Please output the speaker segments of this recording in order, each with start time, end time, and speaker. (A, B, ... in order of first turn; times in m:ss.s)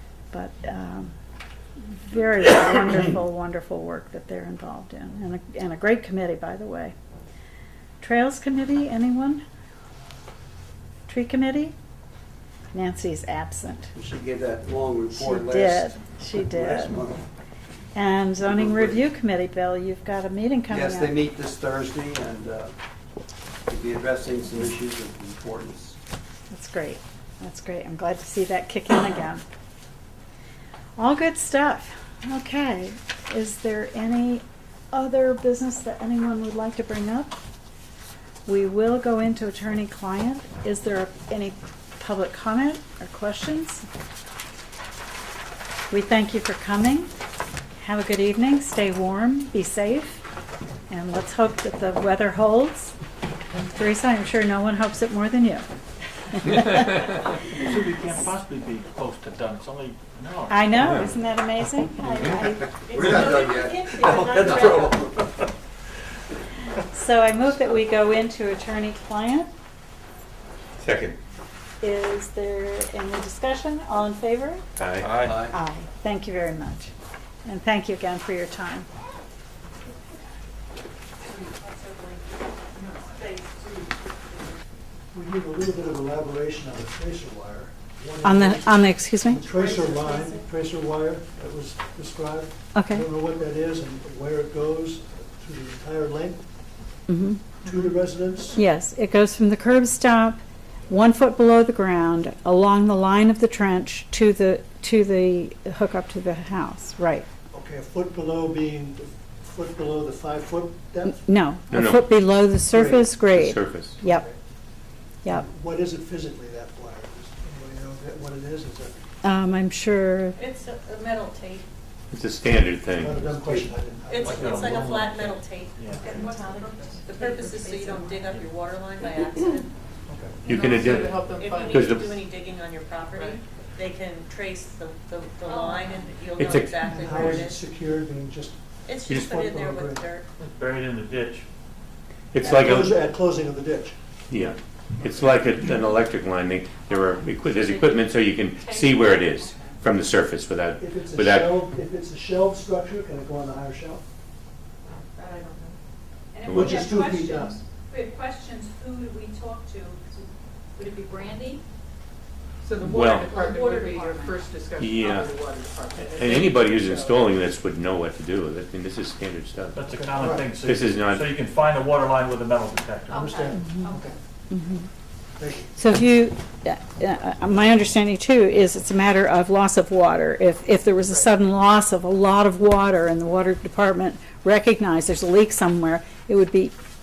0:00.3-0:01.1 A
0:01.8-0:06.9 A
0:08.0-0:09.4 A
0:11.1-0:11.7 A
0:12.7-0:13.9 A
0:13.9-0:17.2 B
0:15.1-0:17.0 A
0:17.9-0:21.2 A
0:18.4-0:19.0 B
0:20.7-0:22.7 B
0:23.7-0:26.0 B
0:26.5-0:29.4 A
0:31.0-0:37.4 A
0:38.4-0:43.8 A
0:45.9-0:47.1 A
0:47.8-0:50.2 A
0:50.9-0:52.9 A
0:53.7-0:55.6 A
0:56.3-0:57.4 A
0:57.5-1:01.0 C
1:00.5-1:04.8 A
1:02.1-1:05.3 B
1:02.9-1:05.1 D
1:06.8-1:09.5 A
1:10.8-1:11.2 E
1:11.8-1:14.6 A
1:14.8-1:15.3 E
1:15.0-1:15.6 B
1:15.5-1:16.9 A
1:17.4-1:18.9 A
1:21.4-1:22.2 D
1:22.8-1:23.8 D
1:25.1-1:36.4 F
1:28.2-1:29.4 A
1:29.6-1:30.2 D
1:32.7-1:33.0 A
1:37.1-1:37.4 A
1:37.6-1:38.6 F
1:38.5-1:40.4 A
1:40.9-1:47.3 A
1:47.5-1:51.2 F
1:51.1-1:54.2 A
1:51.7-1:52.1 E
1:52.7-1:53.1 F
1:53.3-1:54.0 E
1:54.0-1:54.4 F
1:55.2-1:59.0 F
1:59.2-2:00.4 A
2:00.3-2:01.6 D
2:02.1-2:03.2 E
2:03.0-2:04.9 F
2:03.2-2:03.7 B
2:04.1-2:06.3 D
2:04.2-2:06.2 C
2:06.0-2:08.2 G
2:07.0-2:09.7 D
2:10.1-2:10.4 F
2:10.4-2:12.2 E
2:10.5-2:11.8 H
2:10.6-2:17.6 D
2:15.4-2:16.1 G
2:16.4-2:16.8 E
2:16.8-2:20.1 F
2:18.8-2:20.2 D
2:19.1-2:19.3 E
2:20.4-2:21.5 C
2:22.3-2:23.0 E
2:22.4-2:24.0 F
2:24.3-2:31.6 E
2:28.6-2:29.7 G
2:30.8-2:34.0 F
2:36.3-2:41.6 G
2:36.4-2:37.0 E
2:36.5-2:37.6 F
2:42.6-2:47.1 H
2:42.8-2:43.4 E
2:43.0-2:44.5 G
2:44.8-2:45.4 E
2:46.0-2:49.8 E
2:49.7-2:53.4 C
2:49.9-2:50.5 F
2:50.5-2:51.4 E
2:53.1-2:54.1 G
2:53.1-2:54.1 F
2:54.5-2:54.9 A
2:55.4-2:55.7 F
2:55.7-3:06.7 A